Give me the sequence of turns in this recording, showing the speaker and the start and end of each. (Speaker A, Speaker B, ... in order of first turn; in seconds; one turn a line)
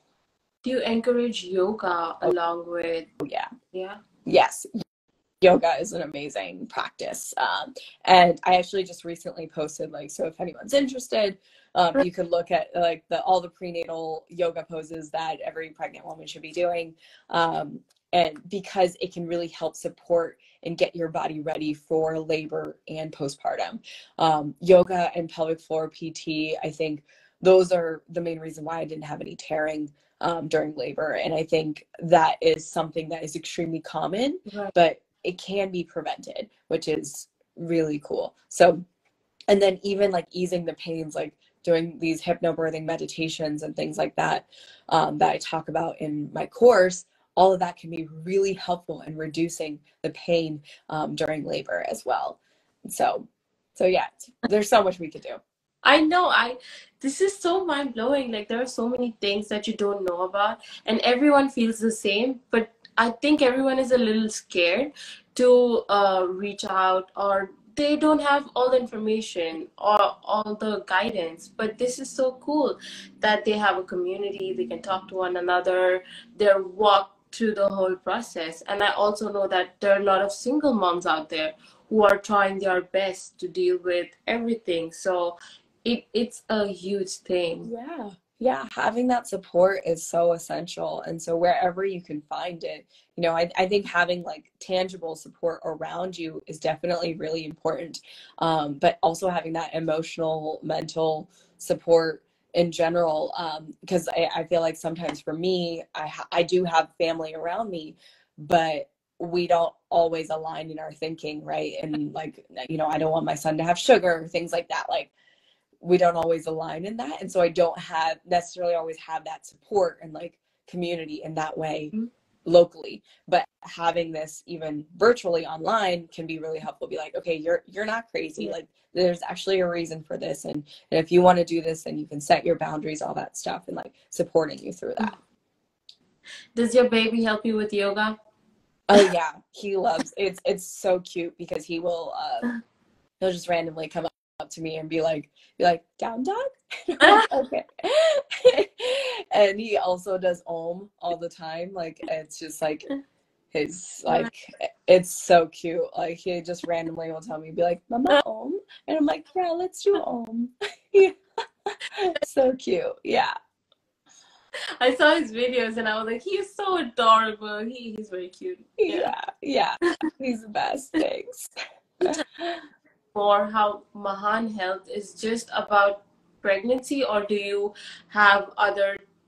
Speaker A: 0.6-3.1
Speaker B: 3.2-3.5
Speaker A: 3.7-4.0
Speaker B: 4.2-4.8
Speaker B: 5.4-38.8
Speaker B: 39.5-55.4
Speaker A: 55.8-87.7
Speaker B: 87.6-115.1
Speaker B: 115.8-121.9
Speaker B: 122.5-135.1
Speaker A: 136.5-138.2
Speaker B: 138.9-142.5
Speaker B: 143.2-152.9
Speaker B: 153.5-163.3
Speaker A: 164.8-169.1
Speaker B: 168.8-171.5
Speaker B: 172.0-172.6
Speaker A: 173.1-179.0